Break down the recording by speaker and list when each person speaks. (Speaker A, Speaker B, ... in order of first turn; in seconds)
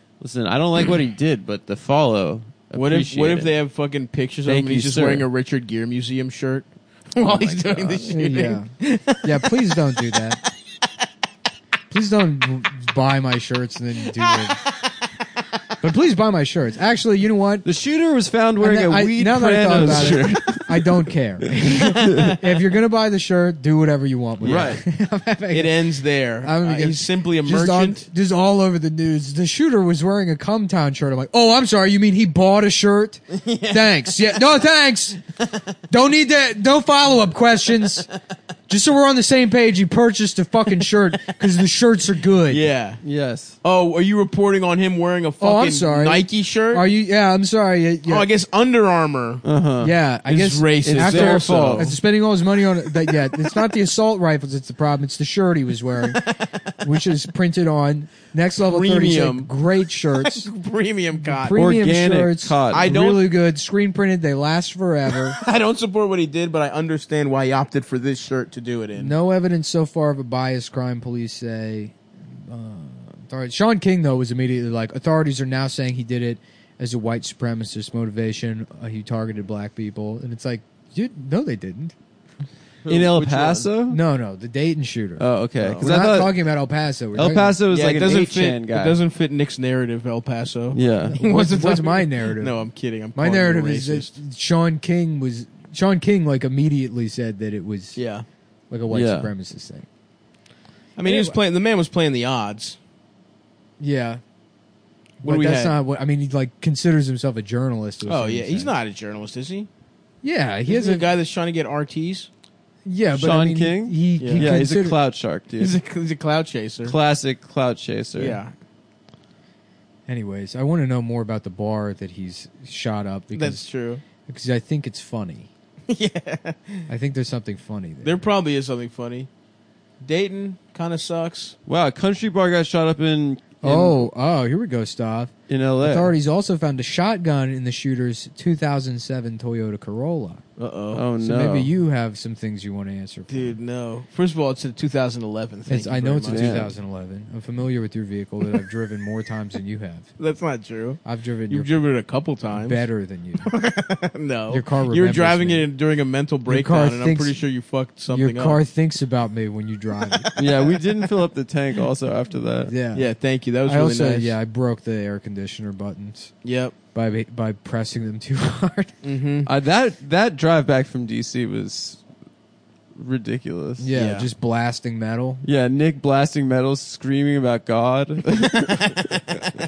Speaker A: 0.2-3.6, 4.5-5.3, 7.2-8.1, 17.6-20.9, 21.7-22.4, 24.4-24.8, 43.0-43.5, 49.4-49.9, 50.8-52.0, 61.5-62.9, 82.9-84.0, 85.2-86.4, 87.1-89.0, 90.7-91.2, 98.9-99.3, 113.1-115.8, 116.8-118.4, 131.7-134.1, 135.5-136.1, 140.9-141.7, 146.3-146.7, 160.3-162.7, 169.4-172.0, 172.9-173.9, 175.4-179.2
Speaker B: 2.7-10.4, 14.4-15.0, 19.8-20.3, 24.4-24.7, 25.5-28.1, 33.3-34.4, 42.5-43.0, 43.6-46.9, 48.1-49.4, 50.2-52.0, 53.1-53.6, 58.6-59.5, 60.2-61.6, 62.7-63.3, 65.3-69.1, 82.8-83.7, 85.6-85.9, 87.7-94.2, 98.0-98.2, 101.0-102.8, 105.2-105.8, 108.0-109.7, 110.7-112.3, 114.2-114.5, 115.6-117.0, 118.2-118.5, 123.3-124.0, 125.9-126.9, 128.0-129.3, 130.0-131.6, 140.6-141.0, 143.3-146.7, 150.2-152.8, 153.4-158.6, 160.1-160.8, 162.9-164.3, 166.4-166.8, 169.0-169.5, 173.9-174.3, 179.1-179.4
Speaker C: 8.1-10.4, 11.9-14.6, 15.8-17.6, 18.6-25.8, 26.4-35.2, 35.9-38.1, 38.7-42.6, 45.4-48.3, 49.8-60.5, 61.2-65.4, 69.0-81.9, 83.9-87.6, 91.1-92.5, 93.2-98.0, 98.7-99.8, 101.0-101.4, 103.8-104.2, 105.2-108.7, 110.2-111.1, 112.8-115.0, 120.1-123.6, 124.3-125.5, 126.9-128.2, 133.6-140.4, 141.2-143.6, 145.7-150.1, 151.0-151.9, 152.5-153.5, 154.5-155.7, 156.5-157.4, 158.1-160.3, 162.7-163.1, 163.7-166.3, 166.9-168.9, 173.8-175.4